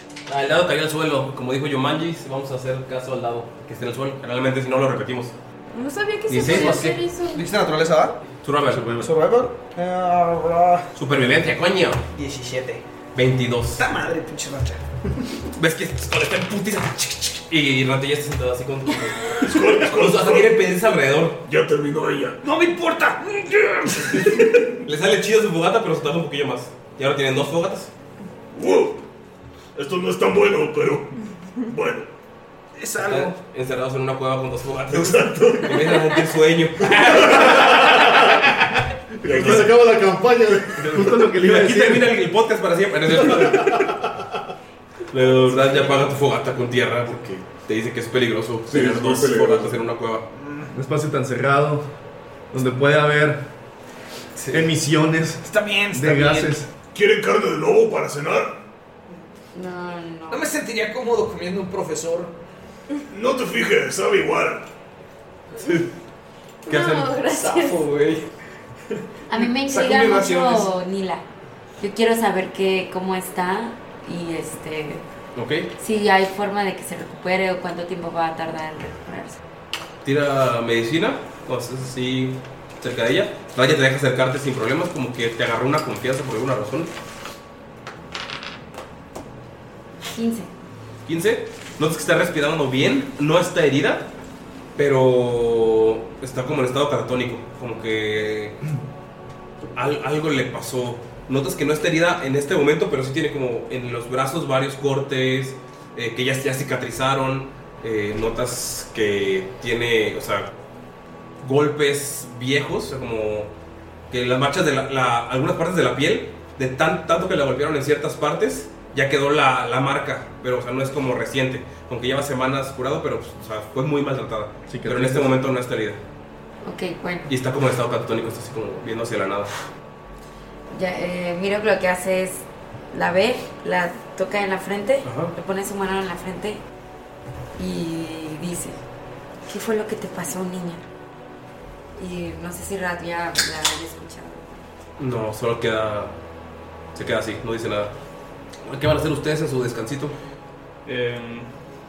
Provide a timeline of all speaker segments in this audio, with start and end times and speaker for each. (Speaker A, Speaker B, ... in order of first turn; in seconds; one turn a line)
Speaker A: 0.3-5.3
Speaker B: 5.7-7.4
Speaker A: 6.3-7.0
Speaker C: 6.4-8.2
Speaker A: 8.4-9.0
Speaker D: 8.7-9.1
Speaker C: 8.8-10.9
Speaker A: 10.9-12.0
Speaker C: 12.1-12.8
Speaker A: 13.1-13.8
Speaker C: 13.8-14.8
Speaker A: 15.6-21.4
Speaker E: 19.4-20.5
Speaker E: 21.4-22.4
Speaker C: 22.4-24.7
Speaker A: 24.8-27.9
Speaker E: 28.5-29.0
Speaker E: 29.7-32.1
Speaker C: 32.8-33.3
Speaker A: 33.0-38.3
Speaker E: 34.9-35.8
Speaker F: 37.1-38.3
Speaker F: 39.2-41.3
Speaker A: 39.3-39.7
Speaker D: 39.3-39.7
Speaker D: 40.8-42.2
Speaker A: 41.3-44.0
Speaker F: 43.2-44.0
Speaker A: 45.1-50.2
Speaker F: 48.7-49.8
Speaker C: 50.3-50.7
Speaker D: 50.7-51.9
Speaker D: 52.5-53.4
Speaker A: 54.3-54.7
Speaker D: 54.5-56.7
Speaker C: 55.4-56.6
Speaker E: 56.9-58.6
Speaker G: 59.5-60.5
Speaker C: 60.3-62.3
Speaker E: 63.1-64.7
Speaker B: 66.7-67.8
Speaker A: 66.7-67.2
Speaker C: 67.3-68.3
Speaker G: 69.3-71.2
Speaker C: 69.3-70.7
Speaker G: 71.8-75.0
Speaker A: 75.3-75.7
Speaker G: 75.8-79.4
Speaker A: 80.0-86.9
Speaker G: 90.1-90.5
Speaker A: 91.0-94.1
Speaker A: 94.8-98.6
Speaker A: 99.8-110.5
Speaker A: 111.4-113.5
Speaker A: 114.1-126.0
Speaker D: 124.7-125.4
Speaker G: 126.6-127.3
Speaker A: 127.3-129.6
Speaker G: 130.7-136.6
Speaker A: 135.0-135.3
Speaker G: 137.6-138.8
Speaker G: 139.5-140.8
Speaker G: 141.9-144.4
Speaker A: 145.0-146.1
Speaker A: 146.9-147.9
Speaker A: 148.6-150.2
Speaker C: 150.8-151.5